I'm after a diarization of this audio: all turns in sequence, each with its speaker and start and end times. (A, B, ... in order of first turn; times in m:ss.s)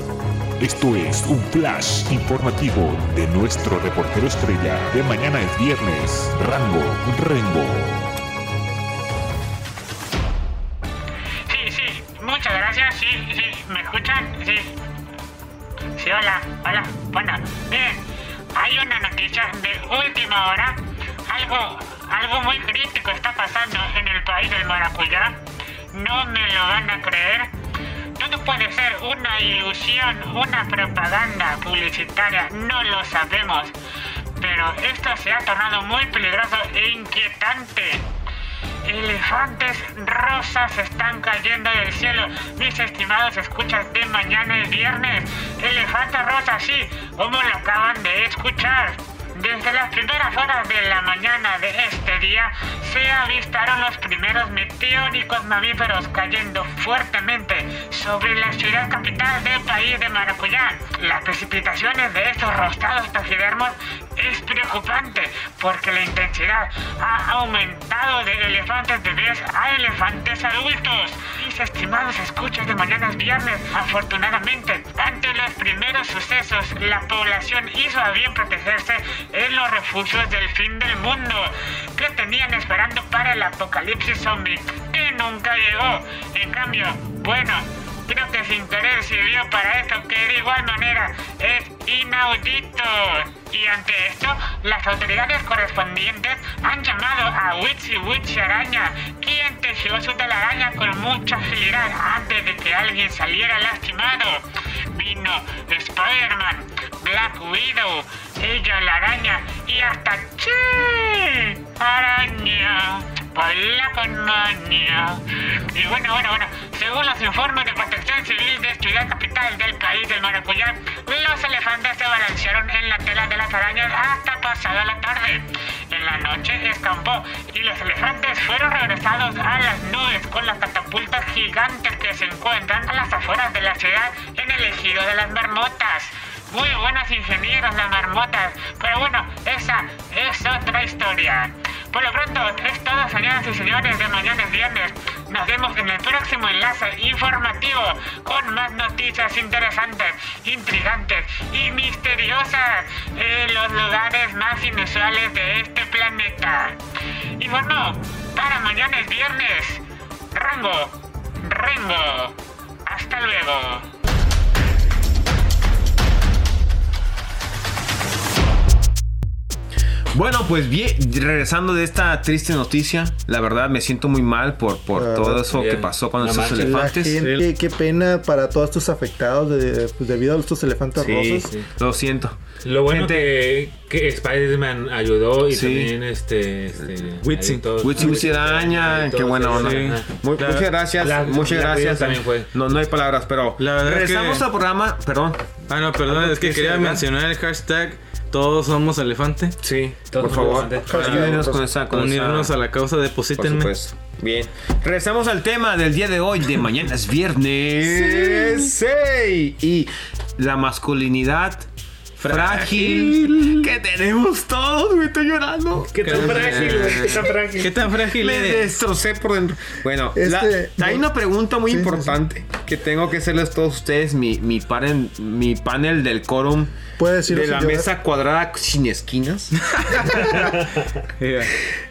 0:00.6-0:08.1 A
0:11.5-0:14.8 B
0:16.0-0:18.0 B
0:18.5-0:25.4 B
0:25.9-0:27.5 B
0:28.2-0:33.7 B
0:34.4-0:38.0 B
0:38.8-1:44.4 B
1:44.9-1:55.2 B
1:55.7-2:36.8 B
2:37.4-2:43.8 B
2:50.1-2:57.2 C
2:54.9-2:55.6 D
2:55.5-2:56.9 E
2:56.5-3:01.5 D
2:57.2-2:57.4 F
3:01.0-3:02.3 C
3:02.6-3:10.1 E
3:02.9-3:03.3 C
3:05.5-3:05.9 C
3:07.2-3:07.6 F
3:07.8-3:15.4 C
3:09.5-3:10.7 F
3:11.0-3:12.5 E
3:13.6-3:14.4 F
3:15.7-3:19.6 F
3:16.1-3:17.0 C
3:16.2-3:17.0 E
3:19.6-3:22.5 C
3:20.1-3:21.5 E
3:20.8-3:21.6 D
3:21.9-3:23.7 F
3:23.4-3:31.6 C
3:27.9-3:28.6 F
3:32.2-3:33.6 F
3:32.2-3:37.3 C
3:35.8-3:37.8 E
3:36.0-3:38.7 F
3:38.1-3:46.7 C
3:40.1-3:41.1 D
3:41.6-3:42.2 D
3:47.0-3:47.9 D
3:47.3-3:49.6 C
3:49.8-3:50.5 F
3:51.2-3:51.5 F